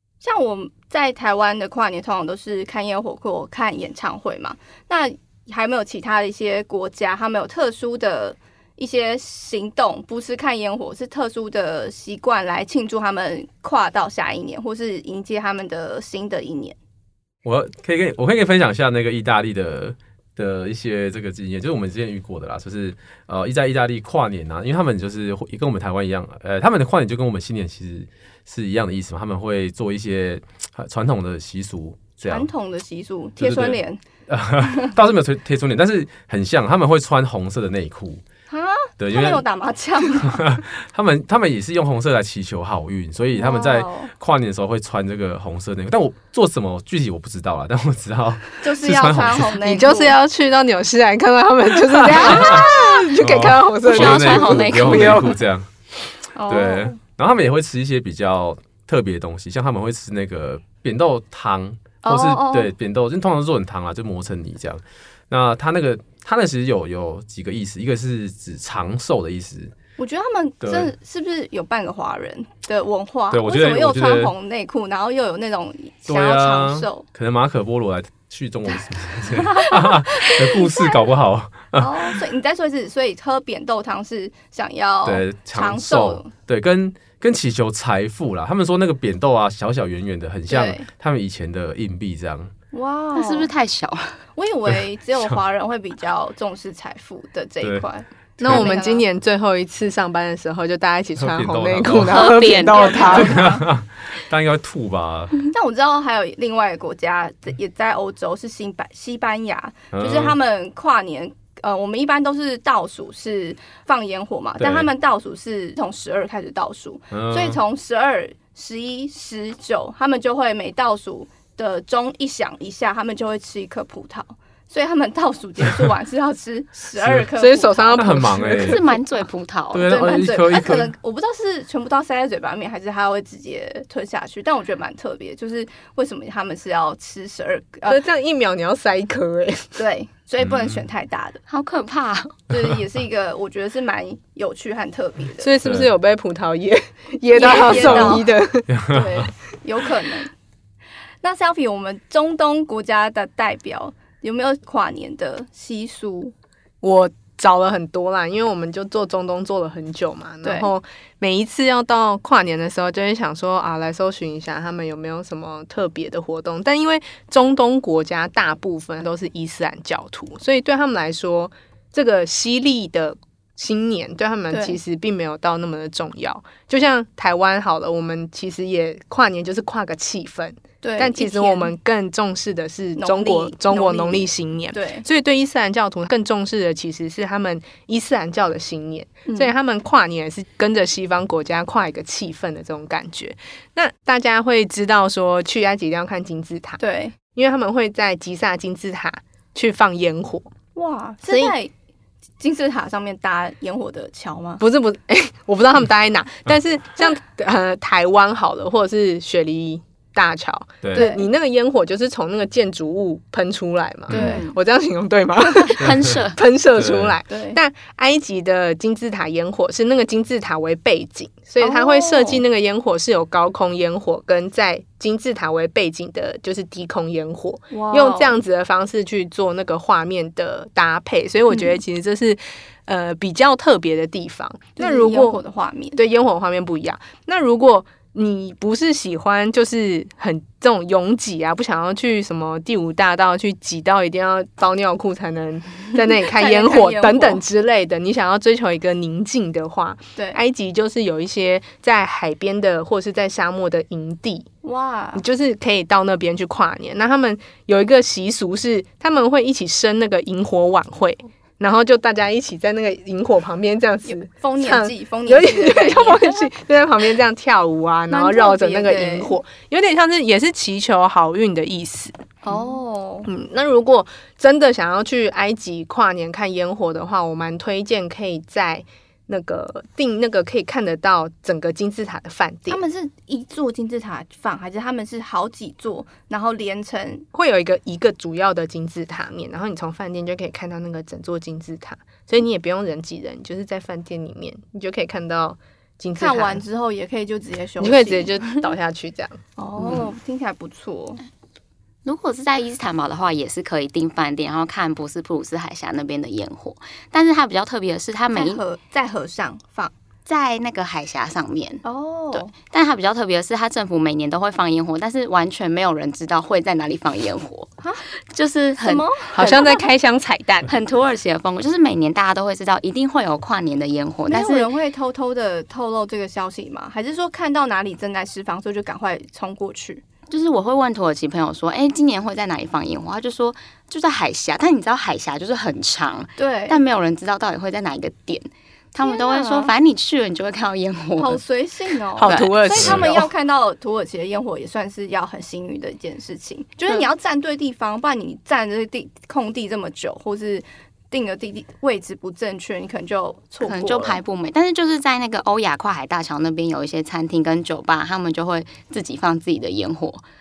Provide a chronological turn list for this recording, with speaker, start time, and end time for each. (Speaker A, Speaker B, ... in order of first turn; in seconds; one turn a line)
Speaker A: 0.2-16.8
Speaker B: 17.4-32.5
Speaker A: 32.3-34.0
Speaker B: 33.4-38.2
Speaker A: 38.5-40.4
Speaker B: 39.0-39.4
Speaker B: 40.2-49.5
Speaker A: 43.4-44.1
Speaker A: 48.6-50.2
Speaker C: 49.6-55.4
Speaker B: 52.0-55.7
Speaker D: 53.8-55.4
Speaker A: 56.4-57.0
Speaker B: 56.5-69.7
Speaker A: 62.0-62.7
Speaker A: 70.0-77.0
Speaker B: 70.6-70.9
Speaker B: 73.3-74.3
Speaker B: 76.1-82.1
Speaker A: 79.3-81.0
Speaker A: 81.8-86.3
Speaker B: 85.0-92.5
Speaker A: 90.5-90.9
Speaker A: 92.7-93.5
Speaker D: 93.2-94.2
Speaker A: 94.3-99.0
Speaker C: 98.4-103.4
Speaker B: 98.4-98.7
Speaker B: 101.2-102.5
Speaker D: 102.1-103.4
Speaker A: 102.7-103.7
Speaker B: 103.1-105.4
Speaker A: 105.5-128.2
Speaker B: 109.9-110.4
Speaker B: 114.6-114.9
Speaker B: 117.1-117.6
Speaker B: 127.0-127.3
Speaker C: 127.4-128.9
Speaker B: 127.9-128.8
Speaker D: 128.5-130.1
Speaker B: 129.7-130.9
Speaker A: 129.9-138.0
Speaker C: 137.9-139.8
Speaker A: 139.8-141.4
Speaker B: 140.4-140.8
Speaker D: 141.5-142.4
Speaker A: 142.5-145.6
Speaker C: 145.4-148.7
Speaker B: 145.6-145.9
Speaker A: 147.3-148.3
Speaker B: 148.7-149.3
Speaker A: 148.9-150.3
Speaker A: 151.2-156.3
Speaker C: 156.8-196.8
Speaker A: 160.4-160.7
Speaker A: 174.5-174.8
Speaker A: 180.8-181.7
Speaker A: 183.0-185.1
Speaker A: 189.3-189.5
Speaker A: 196.8-197.2
Speaker C: 197.3-200.5
Speaker A: 200.8-201.7
Speaker C: 201.2-201.6
Speaker A: 202.4-204.6
Speaker C: 204.6-235.4
Speaker B: 210.8-211.1
Speaker A: 210.9-211.3
Speaker A: 214.1-214.5
Speaker D: 214.1-214.5
Speaker D: 215.7-216.4
Speaker B: 215.8-216.2
Speaker B: 216.8-217.2
Speaker A: 217.3-217.6
Speaker A: 221.6-222.4
Speaker A: 227.7-228.4
Speaker A: 231.5-231.8
Speaker A: 234.8-236.0
Speaker C: 236.0-254.5
Speaker A: 246.2-247.4
Speaker A: 254.6-255.2
Speaker C: 255.1-272.1
Speaker A: 264.1-266.5
Speaker A: 268.1-269.4
Speaker A: 272.4-273.3
Speaker C: 273.3-282.8
Speaker A: 282.7-287.3
Speaker C: 287.3-296.6
Speaker A: 296.2-298.4
Speaker C: 297.8-299.4
Speaker A: 299.6-301.2
Speaker D: 299.8-300.1
Speaker D: 302.1-308.6
Speaker A: 308.3-309.9
Speaker D: 310.3-317.8
Speaker A: 311.8-312.5
Speaker D: 318.3-319.8
Speaker A: 318.8-319.8
Speaker C: 319.4-320.7
Speaker D: 320.7-324.7
Speaker A: 324.3-330.0
Speaker D: 330.3-341.4
Speaker A: 336.4-336.8
Speaker A: 339.0-339.7
Speaker A: 341.2-354.2
Speaker C: 342.2-343.3
Speaker D: 342.2-342.6
Speaker B: 342.8-343.2
Speaker D: 353.6-360.2